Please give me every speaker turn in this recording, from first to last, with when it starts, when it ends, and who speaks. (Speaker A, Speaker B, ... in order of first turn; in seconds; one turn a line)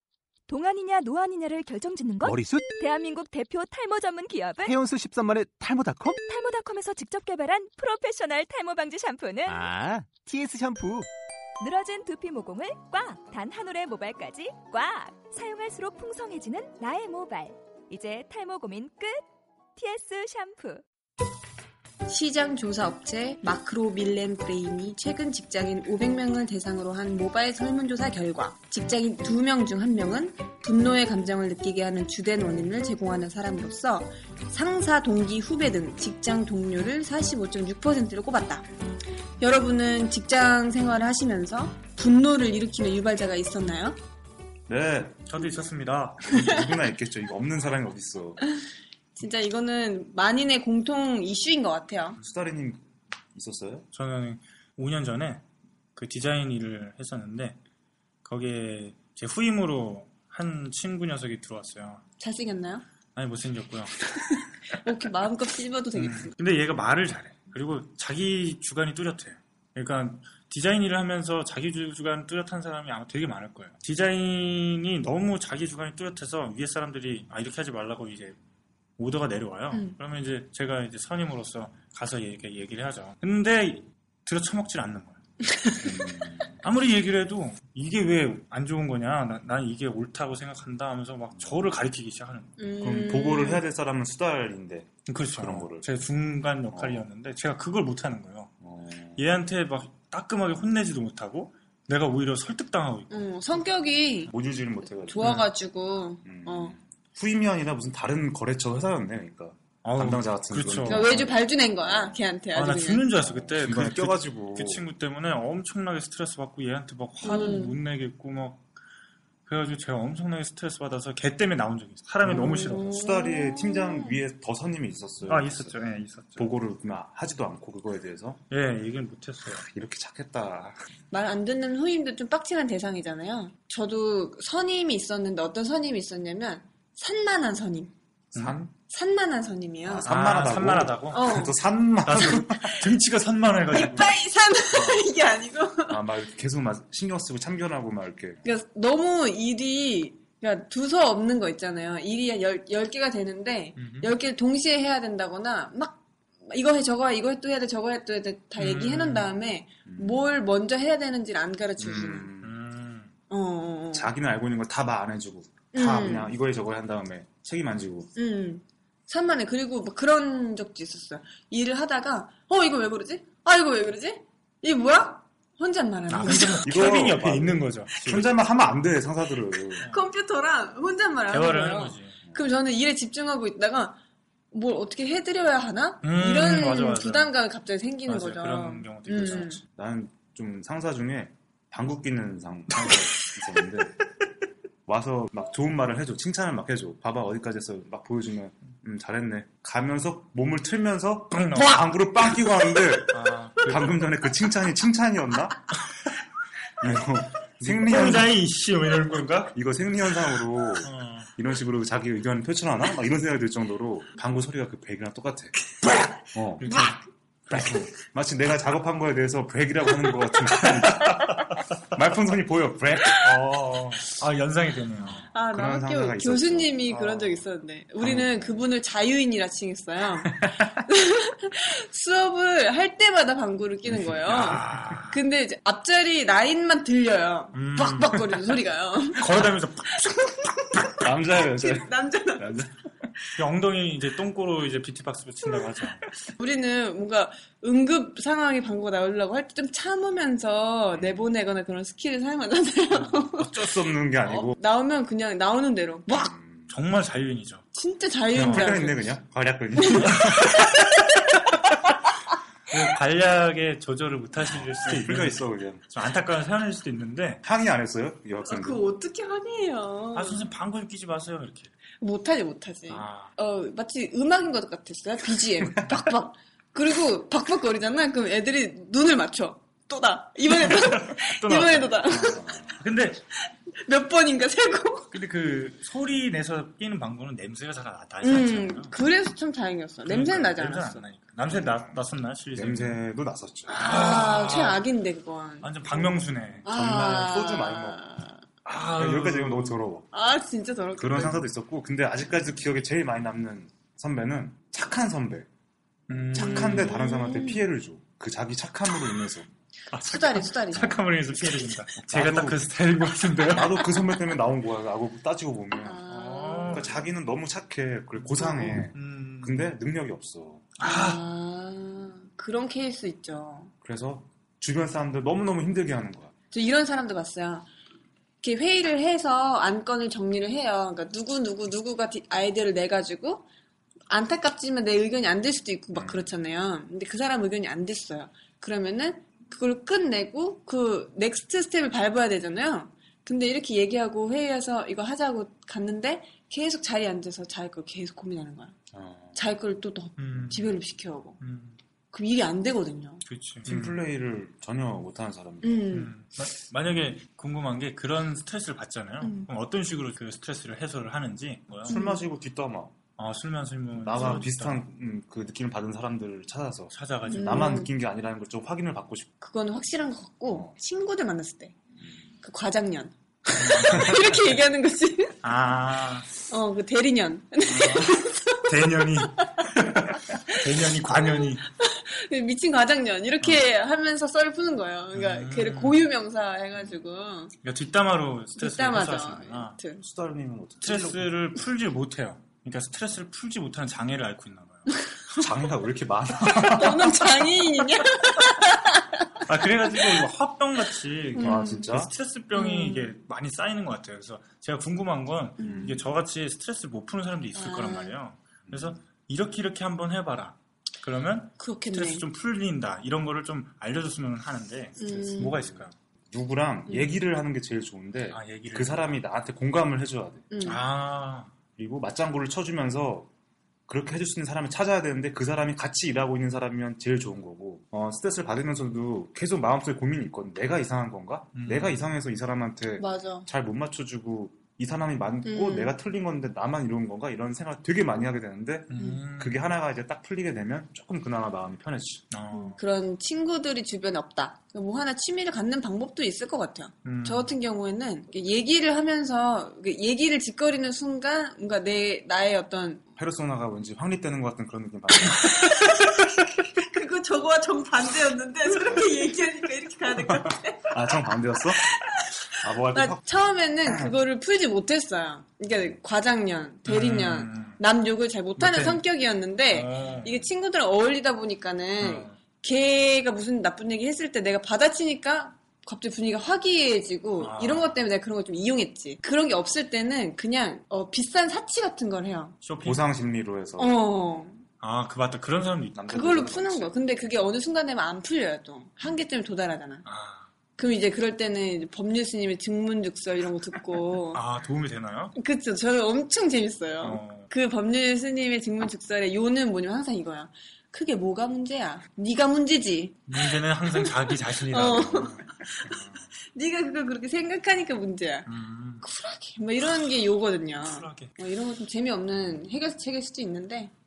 Speaker A: 0.5-4.8
Speaker B: 2.2-2.7
Speaker B: 4.6-6.2
Speaker A: 6.1-9.7
Speaker B: 9.5-11.1
Speaker A: 11.6-19.2
Speaker A: 19.8-20.8
Speaker C: 22.1-38.6
Speaker C: 39.4-44.0
Speaker D: 44.7-45.3
Speaker E: 45.3-46.4
Speaker D: 46.2-48.4
Speaker C: 49.1-52.2
Speaker D: 52.2-52.8
Speaker D: 53.3-53.9
Speaker E: 53.9-55.4
Speaker E: 56.0-57.6
Speaker E: 58.2-62.0
Speaker C: 62.2-62.8
Speaker E: 63.1-64.0
Speaker C: 64.2-66.3
Speaker E: 65.9-78.4
Speaker E: 79.0-85.2
Speaker C: 79.7-80.0
Speaker D: 85.8-86.6
Speaker E: 86.6-92.6
Speaker D: 91.4-91.9
Speaker C: 92.6-93.7
Speaker D: 92.8-95.9
Speaker E: 95.1-98.5
Speaker D: 96.7-97.0
Speaker D: 98.6-99.3
Speaker E: 99.2-103.3
Speaker C: 103.1-104.3
Speaker D: 104.3-105.3
Speaker C: 105.1-106.8
Speaker E: 105.2-105.5
Speaker D: 106.2-112.2
Speaker E: 109.8-111.1
Speaker C: 110.9-113.1
Speaker E: 112.5-118.7
Speaker D: 113.2-114.9
Speaker C: 117.2-117.8
Speaker E: 119.5-123.0
Speaker C: 122.2-124.2
Speaker D: 122.7-125.8
Speaker E: 125.2-126.6
Speaker D: 126.4-128.4
Speaker E: 128.5-129.7
Speaker D: 129.5-130.8
Speaker C: 131.1-137.9
Speaker E: 138.3-138.6
Speaker D: 138.3-138.7
Speaker C: 138.9-140.1
Speaker D: 139.8-142.8
Speaker E: 140.1-141.3
Speaker C: 141.1-141.5
Speaker E: 142.1-144.2
Speaker C: 142.5-142.9
Speaker C: 143.7-146.1
Speaker D: 145.9-148.4
Speaker C: 148.4-162.3
Speaker E: 153.8-154.2
Speaker E: 158.6-159.3
Speaker D: 159.9-160.4
Speaker D: 161.8-162.6
Speaker E: 162.4-163.1
Speaker C: 163.3-164.1
Speaker D: 163.9-168.1
Speaker C: 165.7-166.3
Speaker C: 168.2-176.7
Speaker E: 176.1-178.3
Speaker D: 176.3-179.9
Speaker C: 179.8-184.0
Speaker E: 181.3-182.2
Speaker C: 184.5-189.6
Speaker E: 186.0-187.3
Speaker E: 188.1-189.6
Speaker D: 189.8-194.0
Speaker E: 192.7-193.3
Speaker D: 194.9-205.6
Speaker E: 201.3-201.9
Speaker E: 203.1-204.1
Speaker D: 206.8-208.3
Speaker E: 207.6-209.6
Speaker D: 209.5-215.7
Speaker E: 210.8-211.3
Speaker D: 216.3-216.8
Speaker E: 216.6-217.0
Speaker D: 217.5-223.4
Speaker E: 217.5-217.8
Speaker E: 220.5-221.6
Speaker E: 223.2-225.3
Speaker D: 225.0-227.5
Speaker C: 225.3-239.3
Speaker D: 228.0-228.7
Speaker D: 234.1-234.6
Speaker E: 234.2-235.2
Speaker E: 237.5-238.5
Speaker E: 239.2-240.4
Speaker C: 239.9-242.6
Speaker D: 241.0-242.7
Speaker E: 243.4-246.1
Speaker C: 246.4-256.3
Speaker D: 250.9-251.2
Speaker E: 252.9-253.2
Speaker D: 253.4-254.6
Speaker D: 256.1-256.7
Speaker E: 256.7-257.6
Speaker C: 257.7-259.1
Speaker D: 258.3-260.8
Speaker E: 258.4-258.8
Speaker C: 259.8-261.3
Speaker E: 259.9-260.6
Speaker E: 262.7-267.4
Speaker D: 264.5-265.8
Speaker D: 267.4-268.9
Speaker C: 268.5-270.4
Speaker E: 270.1-271.7
Speaker C: 272.0-282.8
Speaker E: 272.9-273.3
Speaker E: 280.6-283.2
Speaker D: 282.1-282.8
Speaker C: 283.4-285.1
Speaker E: 285.1-288.9
Speaker C: 288.2-291.1
Speaker E: 290.1-293.0
Speaker D: 291.5-292.0
Speaker D: 292.5-293.9
Speaker C: 293.7-295.9
Speaker E: 293.8-294.8
Speaker E: 295.6-296.7
Speaker D: 296.6-298.0
Speaker C: 296.6-298.4
Speaker E: 298.6-299.8
Speaker D: 299.0-300.1
Speaker C: 300.1-301.4
Speaker D: 301.0-305.5
Speaker E: 306.1-307.0
Speaker D: 306.3-309.5
Speaker C: 306.4-307.7
Speaker E: 309.9-313.8
Speaker C: 310.0-311.4
Speaker D: 312.1-312.6
Speaker D: 313.5-316.0
Speaker C: 315.8-317.0
Speaker E: 316.1-317.0
Speaker D: 316.7-320.7
Speaker E: 318.2-319.8
Speaker C: 318.4-318.8
Speaker E: 320.8-321.2
Speaker C: 320.8-323.7
Speaker D: 323.8-326.3
Speaker C: 326.5-327.7
Speaker C: 328.4-333.4
Speaker C: 334.1-348.8
Speaker D: 335.9-336.3
Speaker D: 348.9-349.4
Speaker C: 349.4-351.4
Speaker E: 350.2-350.8
Speaker E: 351.4-351.8
Speaker C: 352.1-353.2
Speaker E: 353.2-354.0
Speaker D: 353.6-355.9
Speaker C: 355.6-356.1
Speaker E: 355.9-362.0
Speaker C: 359.2-359.5
Speaker D: 361.9-363.0
Speaker C: 361.9-362.2
Speaker E: 363.2-364.8
Speaker D: 364.0-369.3
Speaker C: 364.1-364.4
Speaker E: 366.9-367.7
Speaker C: 367.3-367.9
Speaker C: 369.4-371.7
Speaker D: 370.5-370.7
Speaker C: 372.4-375.4
Speaker E: 373.6-374.4
Speaker D: 373.9-374.2
Speaker E: 375.4-376.3
Speaker C: 376.5-378.6
Speaker E: 377.6-381.7
Speaker C: 379.3-379.6
Speaker C: 381.1-387.5
Speaker E: 385.1-386.0
Speaker E: 387.6-389.8
Speaker C: 388.6-390.0
Speaker D: 390.0-391.3
Speaker E: 390.8-394.9
Speaker D: 395.3-397.8
Speaker C: 396.5-399.3
Speaker E: 399.4-415.9
Speaker C: 401.4-401.9
Speaker D: 401.4-402.1
Speaker C: 402.5-403.1
Speaker C: 405.6-406.0
Speaker D: 405.6-406.0
Speaker C: 407.5-408.2
Speaker D: 408.7-409.0
Speaker C: 411.6-412.3
Speaker C: 415.0-415.6
Speaker D: 415.5-420.5
Speaker E: 418.3-419.1
Speaker C: 420.5-420.8
Speaker E: 420.6-421.5
Speaker D: 421.8-423.3
Speaker D: 423.9-442.2
Speaker E: 431.6-432.1
Speaker C: 433.0-433.5
Speaker C: 435.4-435.9
Speaker E: 438.9-439.6
Speaker E: 442.3-442.8
Speaker C: 442.5-453.1
Speaker E: 447.0-447.6
Speaker D: 453.2-455.9
Speaker C: 455.3-460.9
Speaker D: 460.2-461.8
Speaker C: 461.9-482.6
Speaker D: 462.6-463.3
Speaker D: 463.8-464.1
Speaker E: 466.9-467.8
Speaker D: 468.6-468.9
Speaker E: 468.6-468.9
Speaker E: 469.7-470.5
Speaker E: 472.0-472.4
Speaker E: 477.4-478.0
Speaker E: 482.6-483.0
Speaker D: 482.8-484.0
Speaker C: 483.8-484.6
Speaker E: 484.8-486.1
Speaker D: 485.9-487.0
Speaker C: 486.1-490.0
Speaker E: 490.1-490.5
Speaker C: 490.8-494.4
Speaker E: 494.3-495.4
Speaker C: 495.4-503.3
Speaker E: 497.0-497.5
Speaker E: 503.3-506.2
Speaker C: 503.9-506.0
Speaker C: 506.5-508.5
Speaker E: 508.5-509.1
Speaker C: 509.0-513.9
Speaker E: 510.8-511.3